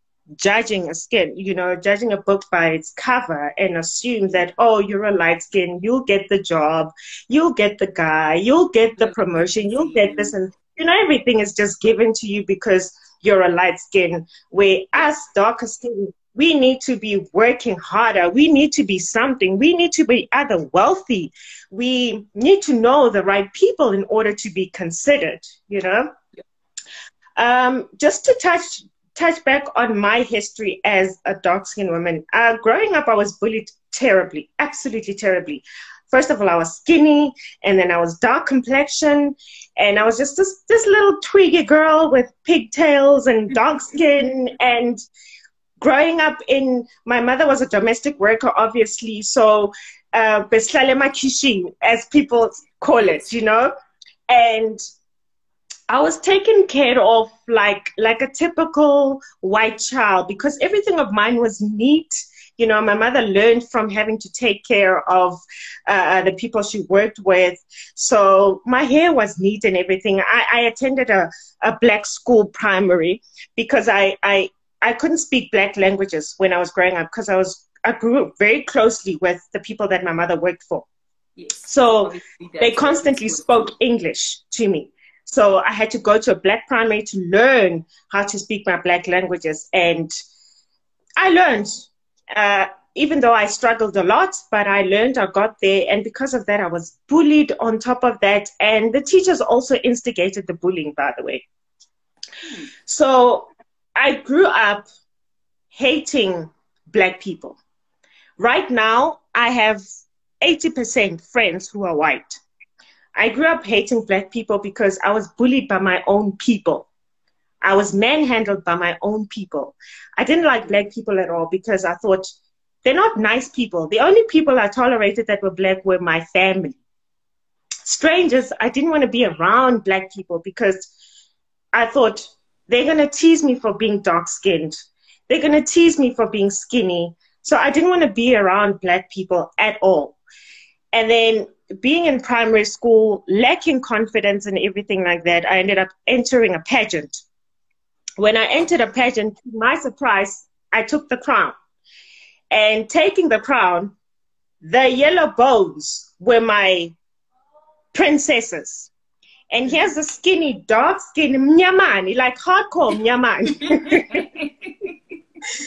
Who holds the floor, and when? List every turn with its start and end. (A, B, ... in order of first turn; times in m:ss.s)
0:00.4-0:26.1 A
0:09.0-0:10.4 B
0:27.4-0:45.0 A
0:45.8-0:53.7 A
0:53.0-0:53.2 B
0:54.3-0:54.8 A
0:55.9-1:20.9 A
1:21.4-1:23.7 B
1:21.7-1:30.1 A
1:31.2-1:41.4 A
1:42.8-1:44.8 A
1:45.7-1:47.6 A
1:48.4-1:49.8 A
1:50.4-1:52.4 A
1:53.2-1:56.9 A
1:57.6-2:02.3 A
2:02.8-2:06.8 A
2:07.8-2:10.9 A
2:11.7-2:14.8 A
2:15.3-2:20.2 A
2:20.9-2:27.2 A
2:28.2-2:31.6 A
2:32.5-2:33.9 A
2:34.6-2:36.9 A
2:37.9-2:38.9 A
2:39.5-2:44.3 A
2:44.1-2:44.9 B